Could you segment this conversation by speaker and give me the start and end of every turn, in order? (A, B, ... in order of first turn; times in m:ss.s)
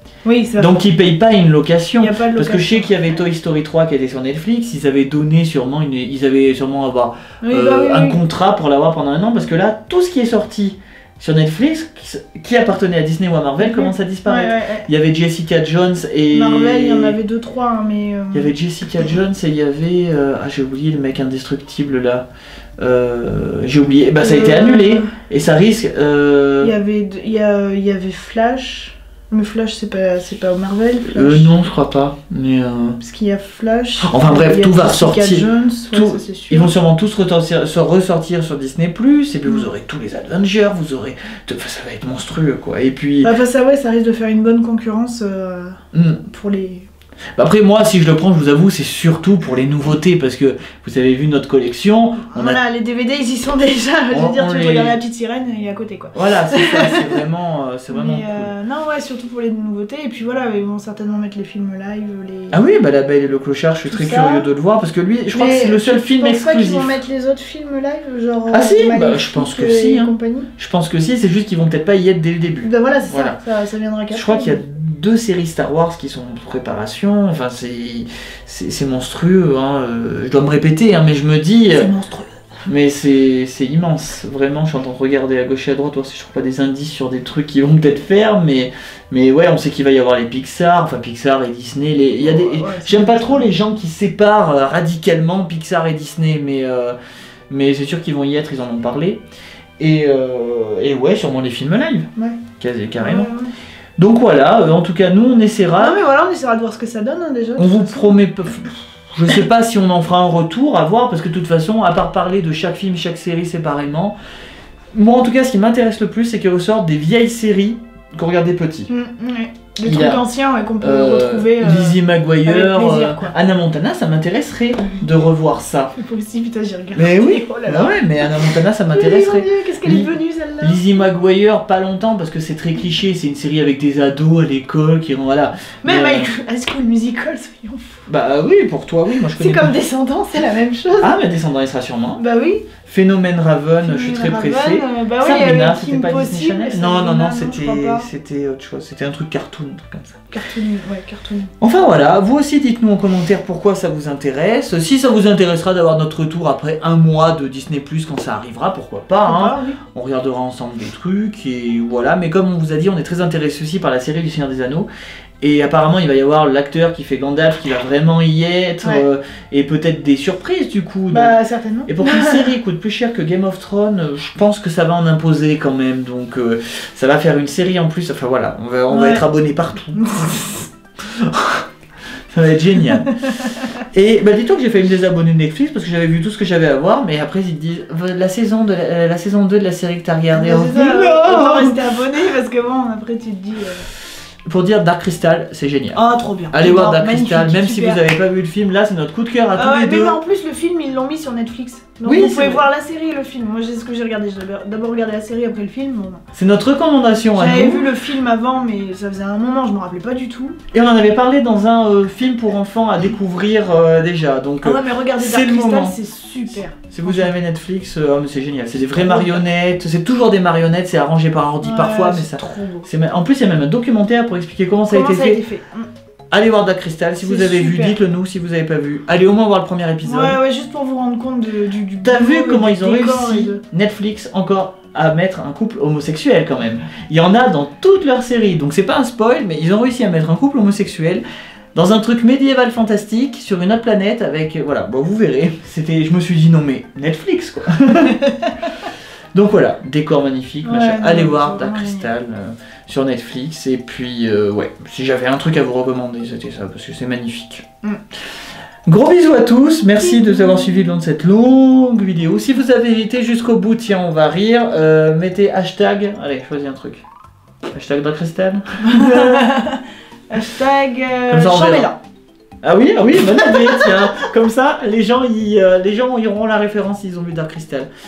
0:00.2-0:00.8 A
0:00.6-0:17.2 B
0:02.0-0:03.0 A
0:07.4-0:08.2 A
0:13.6-0:14.8 A
0:16.3-0:18.5 A
0:18.3-0:22.2 B
0:22.8-0:26.7 B
0:24.2-0:25.1 A
0:26.6-0:31.5 A
0:31.1-0:33.0 B
0:33.0-0:36.7 A
0:34.0-0:43.3 B
0:43.2-0:46.9 A
0:45.9-0:46.2 B
0:47.4-0:52.6 B
0:52.3-0:57.2 A
0:54.1-0:54.9 B
0:56.1-0:58.5 B
0:57.9-1:02.6 A
1:02.5-1:07.0 B
1:03.9-1:04.5 A
1:05.3-1:10.5 A
1:08.5-1:13.4 B
1:12.6-1:14.6 A
1:14.1-1:21.9 B
1:21.7-1:22.3 A
1:22.6-1:37.0 B
1:32.2-1:33.5 A
1:37.5-1:39.2 B
1:39.8-1:43.3 B
1:42.2-1:42.4 A
1:43.0-1:43.5 A
1:44.0-1:46.0 B
1:45.8-1:48.1 A
1:47.6-1:54.2 B
1:54.9-1:58.9 B
1:58.9-2:03.3 A
1:59.8-2:00.2 B
2:00.8-2:05.9 B
2:05.9-2:10.8 A
2:06.9-2:10.1 B
2:10.6-2:16.3 B
2:15.8-2:18.1 A
2:18.1-2:19.7 B
2:19.3-2:21.1 A
2:21.0-2:22.2 B
2:22.2-2:22.6 A
2:22.8-2:30.2 B
2:23.8-2:28.1 A
2:30.3-2:31.5 A
2:31.6-2:44.9 B
2:39.2-2:39.8 A
2:45.4-3:00.5 B
2:51.1-2:52.5 A
2:58.9-2:59.2 A
2:59.9-3:00.6 A
3:01.0-3:01.6 B
3:02.3-3:03.1 B
3:03.1-3:03.7 A
3:03.9-3:11.7 B
3:10.3-3:13.8 A
3:14.5-3:16.0 B
3:15.9-3:18.0 A
3:16.5-3:20.2 B
3:19.5-3:26.2 A
3:22.0-3:22.6 B
3:26.3-3:27.9 B
3:27.3-3:30.6 A
3:30.7-3:36.0 B
3:34.6-3:37.3 A
3:36.5-3:45.4 B
3:38.9-3:39.4 A
3:41.6-3:42.9 A
3:44.9-3:45.9 A
3:46.3-3:50.4 B
3:47.2-3:48.0 A
3:50.0-3:53.6 A
3:52.0-4:01.2 B
4:01.7-4:08.2 B
4:09.3-4:17.6 B
4:10.6-4:12.1 A
4:18.9-4:27.0 B
4:20.0-4:20.9 A
4:27.7-4:29.4 B
4:28.9-4:32.0 A
4:31.3-4:31.9 B
4:32.6-4:37.9 B
4:33.4-4:34.0 A